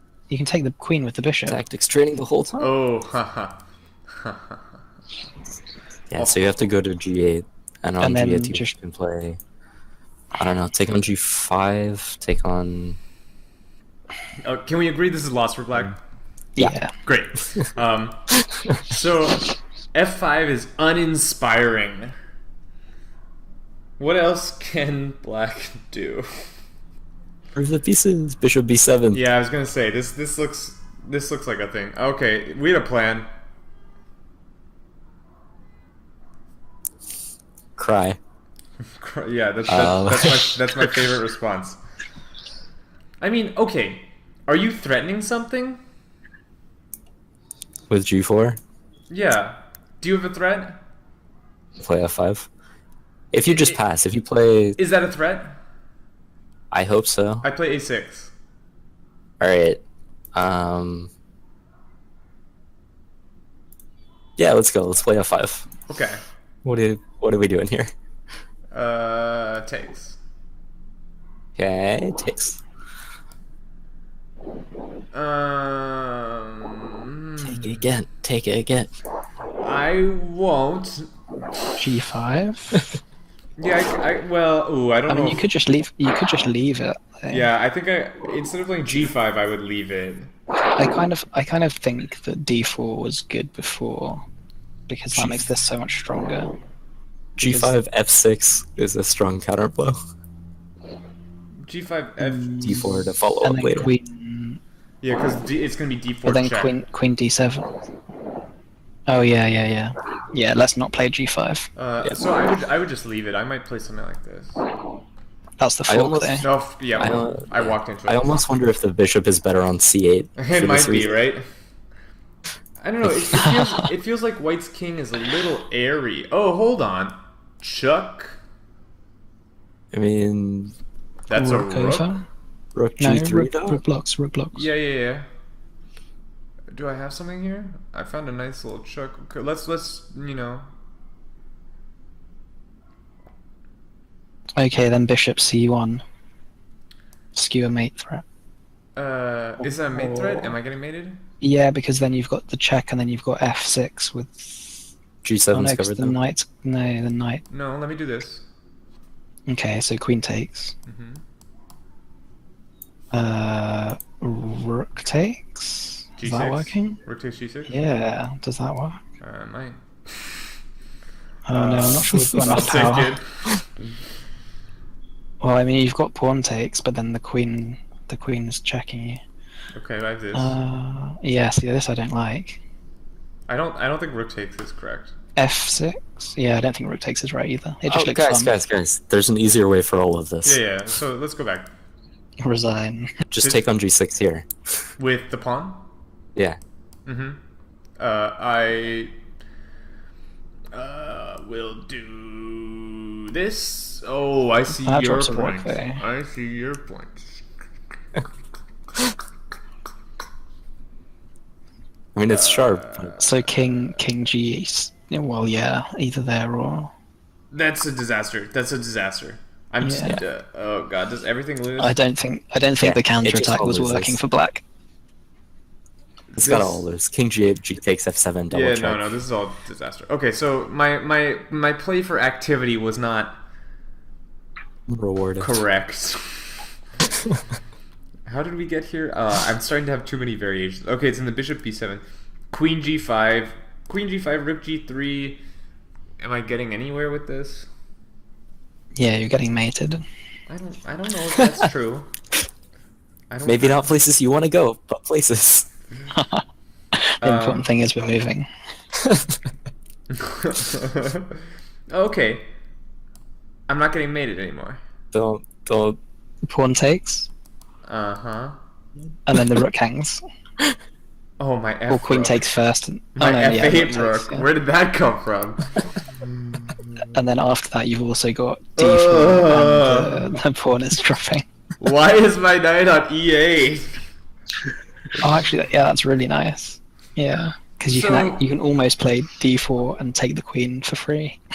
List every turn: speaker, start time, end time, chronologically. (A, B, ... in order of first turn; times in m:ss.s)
0:00.3-0:01.6 A
0:01.5-0:02.7 B
0:02.6-0:03.6 C
0:04.1-0:04.6 C
0:06.1-0:09.4 B
0:06.2-0:06.4 C
0:08.0-0:08.7 A
0:10.4-0:13.0 B
0:14.4-0:16.0 C
0:16.6-0:16.9 A
0:17.0-0:22.1 C
0:24.0-0:26.3 C
0:27.6-0:29.2 B
0:29.1-0:33.3 C
0:37.8-0:38.2 B
0:39.0-0:41.8 C
0:39.7-0:40.8 B
0:43.2-0:45.8 C
0:47.9-0:48.6 B
0:49.1-0:50.8 C
0:51.8-0:52.5 B
0:53.3-0:54.8 B
0:53.4-0:53.8 C
0:54.8-0:55.6 C
0:56.7-0:57.5 B
0:57.4-0:58.3 C
0:59.4-0:59.8 B
1:00.3-1:01.1 B
1:04.4-1:05.7 B
1:05.9-1:06.2 C
1:06.6-1:07.9 B
1:08.7-1:10.2 C
1:11.6-1:12.6 B
1:15.1-1:17.8 C
1:17.4-1:18.9 B
1:19.6-1:21.1 C
1:21.8-1:22.8 A
1:23.6-1:25.4 C
1:25.1-1:27.5 A
1:27.3-1:30.3 C
1:30.8-1:34.2 A
1:34.9-1:36.5 A
1:37.4-1:40.0 B
1:37.4-1:37.8 A
1:41.6-1:42.8 C
1:42.2-1:44.6 A
1:42.6-1:43.9 B
1:45.0-1:46.8 C
1:46.2-1:47.7 A
1:49.1-1:51.7 A
1:51.8-1:54.6 C
1:55.6-1:56.5 A
1:55.9-2:01.2 B
1:56.4-1:58.3 C
2:00.4-2:01.4 C
2:02.8-2:08.4 C
2:09.9-2:10.8 B
2:11.3-2:12.1 C
2:11.3-2:12.2 A
2:12.7-2:13.8 B
2:13.0-2:14.7 A
2:14.5-2:15.2 C
2:16.7-2:20.7 C
2:24.6-2:26.0 A
2:27.3-2:28.2 A
2:29.0-2:31.2 C
2:29.6-2:30.6 A
2:31.4-2:34.9 A
2:35.2-2:36.2 B
2:35.5-2:37.4 A
2:37.5-2:38.4 C
2:39.5-2:40.8 A
2:40.9-2:41.2 C
2:43.1-2:47.0 A
2:46.2-2:47.7 C
2:47.7-2:49.0 A
2:49.2-2:50.4 C
2:51.5-2:53.2 A
2:51.5-2:53.4 C
2:52.1-2:52.9 B
2:55.4-2:59.2 A
2:59.8-3:00.6 C
3:00.3-3:02.6 A
3:03.5-3:05.1 C
3:05.4-3:08.6 A
3:07.9-3:10.6 B
3:10.4-3:11.7 C
3:12.4-3:13.1 A
3:13.3-3:14.5 B
3:15.0-3:15.8 C
3:17.1-3:17.4 C
3:18.0-3:19.1 C
3:20.7-3:27.4 C
3:24.8-3:26.0 A
3:32.2-3:33.3 B
3:32.3-3:33.9 C
3:33.2-3:36.9 A
3:37.5-3:42.0 C
3:39.8-3:40.2 A
3:41.8-3:44.6 A
3:42.8-3:44.2 B
3:46.3-3:46.9 C
3:46.4-3:49.1 B
3:48.5-3:53.4 C
3:54.9-3:55.5 B
3:55.4-3:56.6 C
3:58.2-4:05.4 C
4:06.2-4:07.7 C
4:08.9-4:10.0 A
4:10.5-4:12.1 C
4:13.3-4:14.0 C
4:13.5-4:15.7 B
4:16.1-4:16.4 A
4:17.0-4:18.5 A
4:17.2-4:17.7 C
4:20.1-4:21.4 C
4:21.9-4:22.5 C
4:23.7-4:24.8 C
4:25.1-4:26.0 B
4:26.5-4:27.3 A
4:27.8-4:28.6 C
4:29.2-4:30.2 A
4:31.4-4:32.4 C
4:31.9-4:34.5 A
4:33.2-4:37.0 C
4:37.1-4:41.4 A
4:38.8-4:40.3 C
4:41.8-4:43.9 C
4:45.2-4:51.4 A
4:47.9-4:48.4 C